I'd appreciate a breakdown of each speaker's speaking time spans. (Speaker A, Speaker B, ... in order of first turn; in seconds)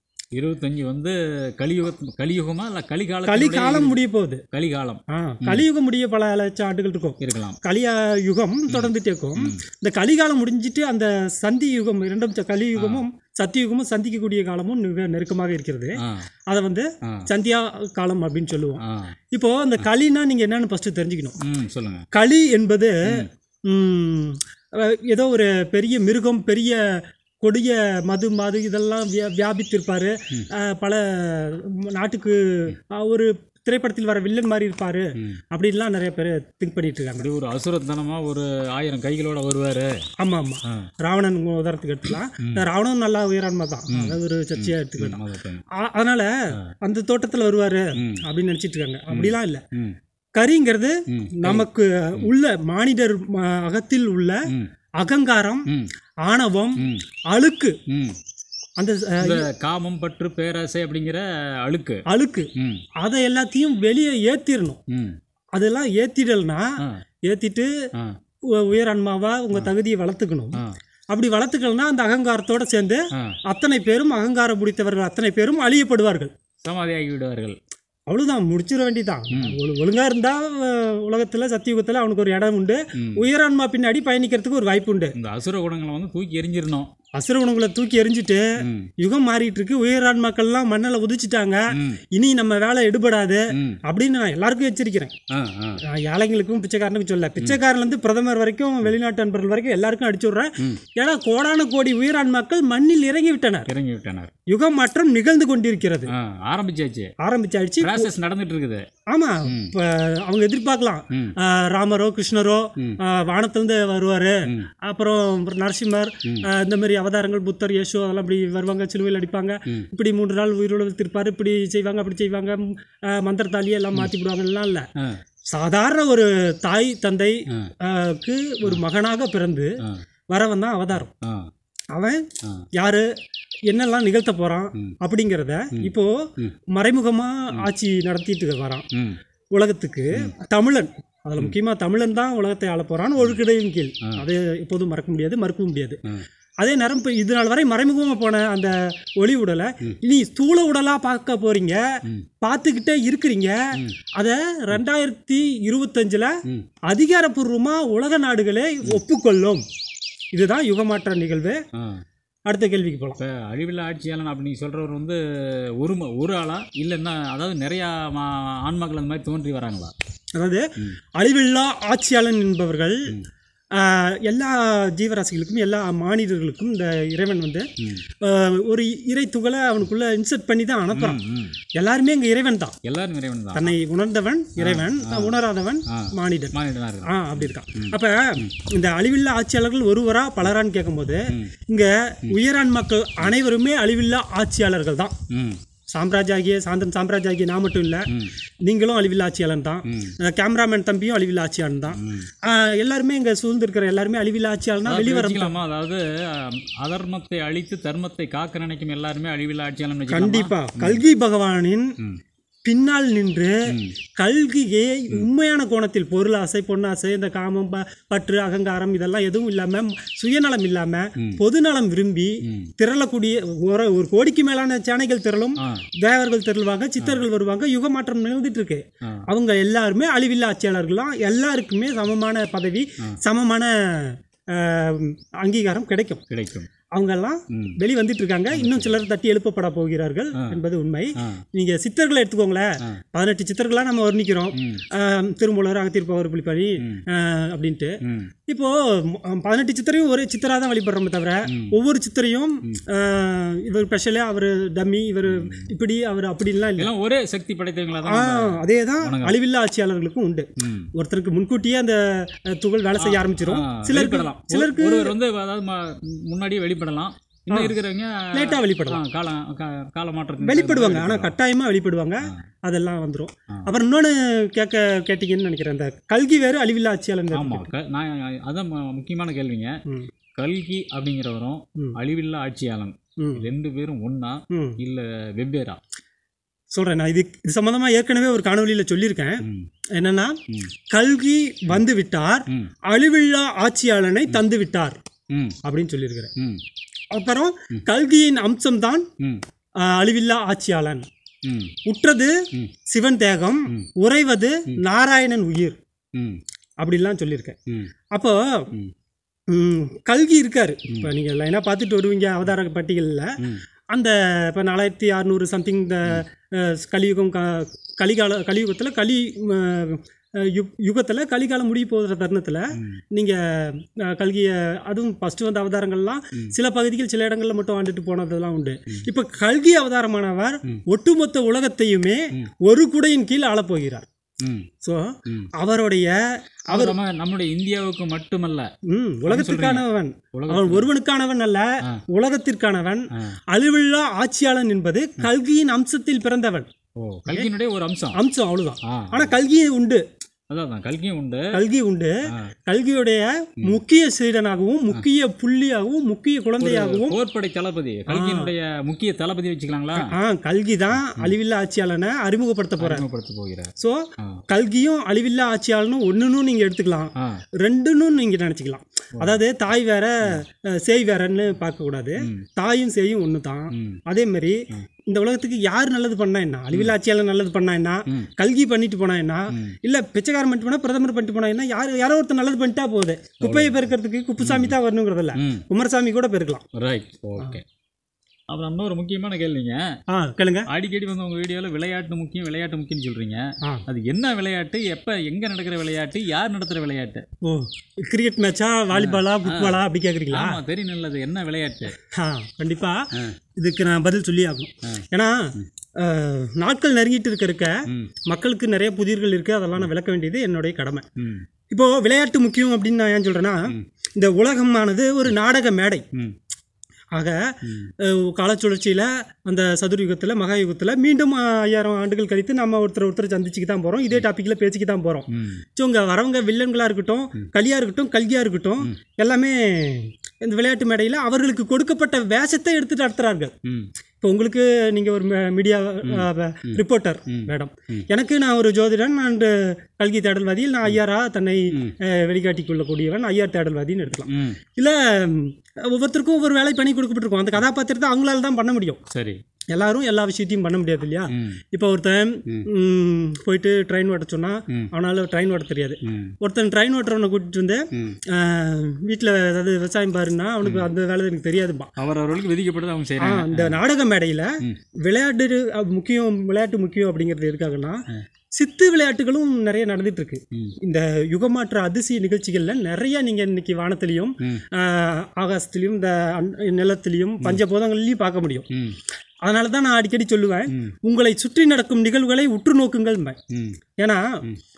Speaker A: 0.3-4.0, 4.5-5.7, 7.2-7.6, 8.7-9.6, 12.7-13.0, 16.0-16.2, 18.8-19.1, 21.4-22.1, 37.2-40.0, 43.9-45.6, 48.0-48.2, 49.1-50.0, 51.1-51.7, 56.8-57.0, 57.9-58.2, 59.2-62.0, 62.5-62.8, 64.9-65.2, 76.6-77.6, 79.3-79.6, 83.0-83.2, 85.2-86.9, 88.6-88.9, 91.7-92.0, 93.5-93.8, 95.3-95.8, 103.7-104.3, 106.1-107.1, 107.8-108.8, 109.5-109.7, 131.1-131.5, 135.7-136.5, 138.9-139.2, 163.2-169.9, 180.9-181.6, 182.8-183.8, 184.6-185.4, 185.9-188.5, 195.3-195.6, 199.9-200.1, 201.9-202.3, 204.8-211.0, 213.7-213.9, 222.4-222.7, 225.6-225.8, 236.3-236.7, 237.5-237.8, 238.5-239.0, 244.6-244.8, 251.5-251.7, 255.3-255.7, 256.8-259.4, 260.6-260.9, 263.0-271.3, 277.3-279.8, 280.4-285.8, 289.4-289.7, 295.3-295.6, 296.4-296.6, 301.4-301.7, 306.1-306.4, 336.7-338.7, 339.3-340.9, 347.0-348.2, 348.9-349.3, 350.5-351.5, 356.6-360.1, 360.9-361.3, 362.8-363.7, 373.7-374.0, 379.5-379.8, 383.4-383.8, 384.4-384.8, 385.4-385.6, 386.7-387.6, 388.5-389.8, 390.7-397.2, 398.9-401.9, 407.9-408.1, 411.2-411.4, 425.3-425.6, 436.0-438.0, 444.3-444.6, 449.1-449.4, 451.3-451.6, 456.1-456.3, 457.9-458.2, 460.6-460.9, 462.0-463.8, 478.7-479.0, 480.7-480.9, 483.5-483.8
Speaker B: 3.2-4.4, 5.1-16.0, 16.5-21.4, 22.1-37.3, 40.2-45.2, 45.7-46.3, 46.8-49.6, 50.4-54.4, 55.0-55.7, 56.2-57.8, 58.8-59.5, 62.1-62.5, 63.0-64.8, 65.5-66.8, 67.3-67.7, 68.5-70.6, 71.1-76.3, 78.1-85.1, 87.2-88.5, 89.0-95.1, 95.9-103.7, 104.5-106.1, 107.2-108.1, 109.1-124.9, 125.5-129.7, 130.3-131.1, 131.9-133.1, 133.7-138.8, 139.5-146.0, 146.6-151.8, 152.4-153.6, 154.2-156.3, 156.9-159.6, 160.3-161.6, 162.5-163.2, 170.4-170.6, 171.2-173.1, 173.7-177.7, 178.2-181.2, 181.8-182.8, 183.5-195.1, 195.9-198.1, 198.7-205.6, 210.1-211.9, 212.6-213.7, 214.2-236.2, 236.9-247.9, 248.5-256.9, 258.0-265.1, 267.5-267.8, 268.3-269.0, 270.4-277.7, 283.2-283.4, 284.5-284.8, 286.7-290.4, 290.9-295.0, 295.6-296.3, 297.1-299.1, 299.8-301.1, 301.8-305.8, 306.8-307.6, 308.1-308.7, 309.5-313.3, 313.9-334.1, 334.8-337.0, 338.9-346.7, 348.1-350.0, 351.5-352.1, 352.7-357.2, 358.1-358.5, 360.0-363.0, 363.8-386.6, 390.1-390.7, 397.4-400.6, 402.1-403.1, 403.6-411.0, 411.7-416.0, 417.1-433.5, 434.2-449.0, 449.7-461.9, 463.2-468.0, 468.6-478.6, 479.4-483.4, 484.0-484.4